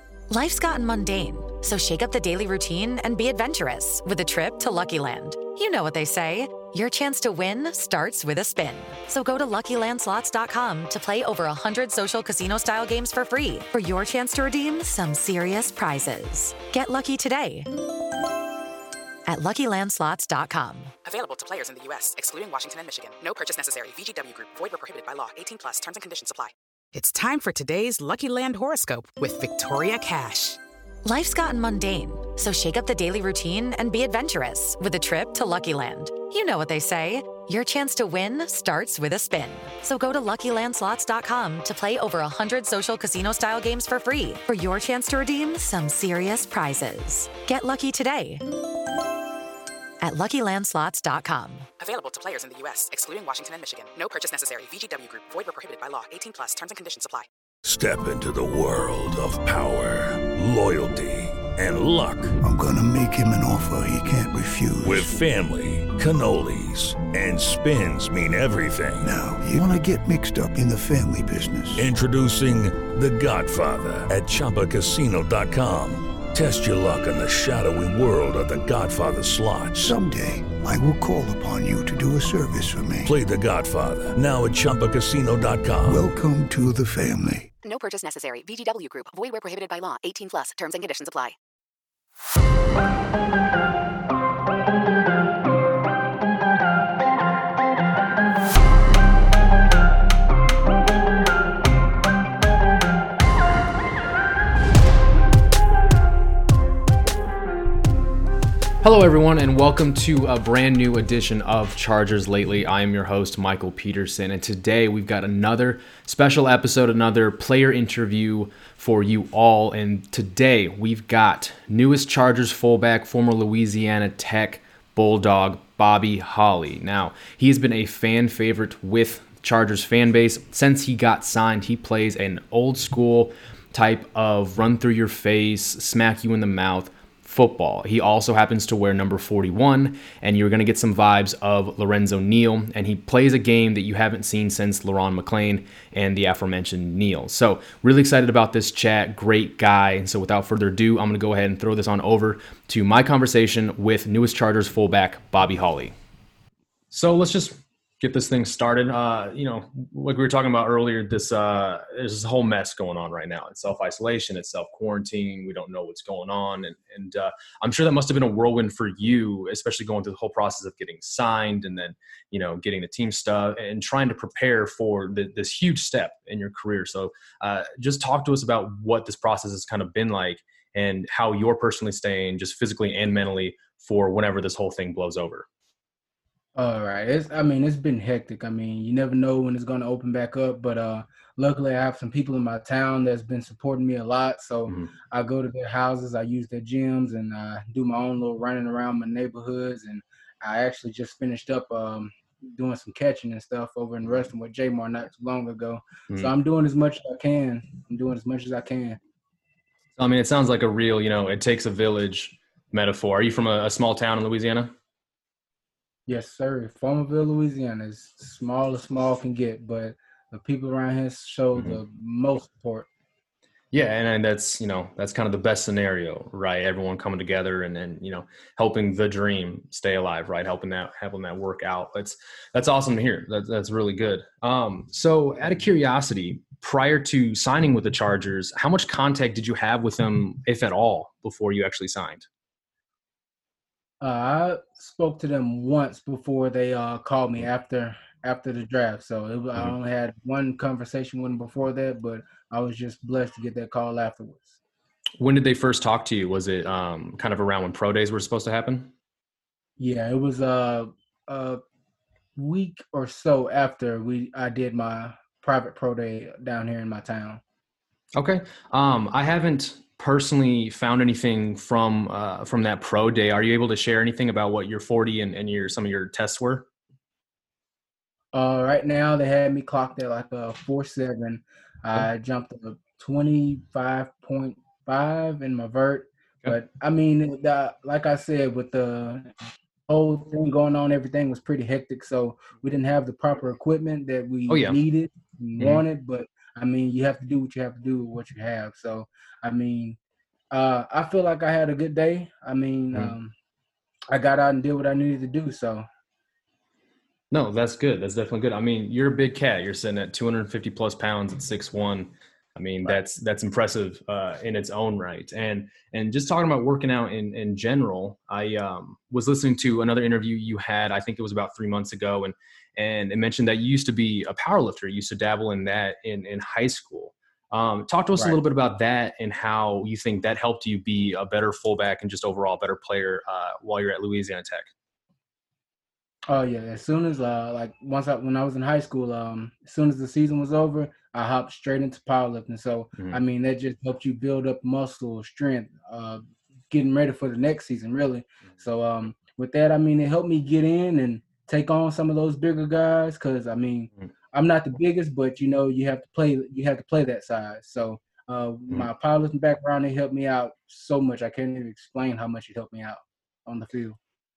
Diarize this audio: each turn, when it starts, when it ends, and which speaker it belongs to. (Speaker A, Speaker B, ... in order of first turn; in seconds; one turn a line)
Speaker A: 0.3-17.7
Speaker A: 19.3-20.9
Speaker B: 21.0-30.6
Speaker A: 31.0-48.4
Speaker A: 50.0-51.7
Speaker B: 51.8-57.3
Speaker C: 57.6-62.4
Speaker D: 62.4-65.1
Speaker C: 64.8-69.1
Speaker D: 69.0-71.9
Speaker C: 71.8-79.9
Speaker D: 79.8-83.1
Speaker C: 83.0-86.0
Speaker D: 85.9-87.5
Speaker E: 87.6-91.4
Speaker F: 108.8-155.9
Speaker F: 156.9-185.4
Speaker G: 186.5-209.0
Speaker F: 194.7-194.9
Speaker F: 206.1-206.3
Speaker F: 210.0-214.7
Speaker G: 216.1-222.9
Speaker F: 221.5-221.8
Speaker F: 223.7-242.3
Speaker G: 244.0-254.6
Speaker F: 255.2-258.9
Speaker G: 259.8-261.6
Speaker G: 262.4-267.4
Speaker F: 268.1-276.7
Speaker G: 278.3-289.3
Speaker G: 289.9-300.0
Speaker F: 294.5-294.8
Speaker F: 295.6-295.8
Speaker G: 300.5-303.3
Speaker G: 304.1-305.9
Speaker F: 307.3-334.7
Speaker G: 336.3-364.0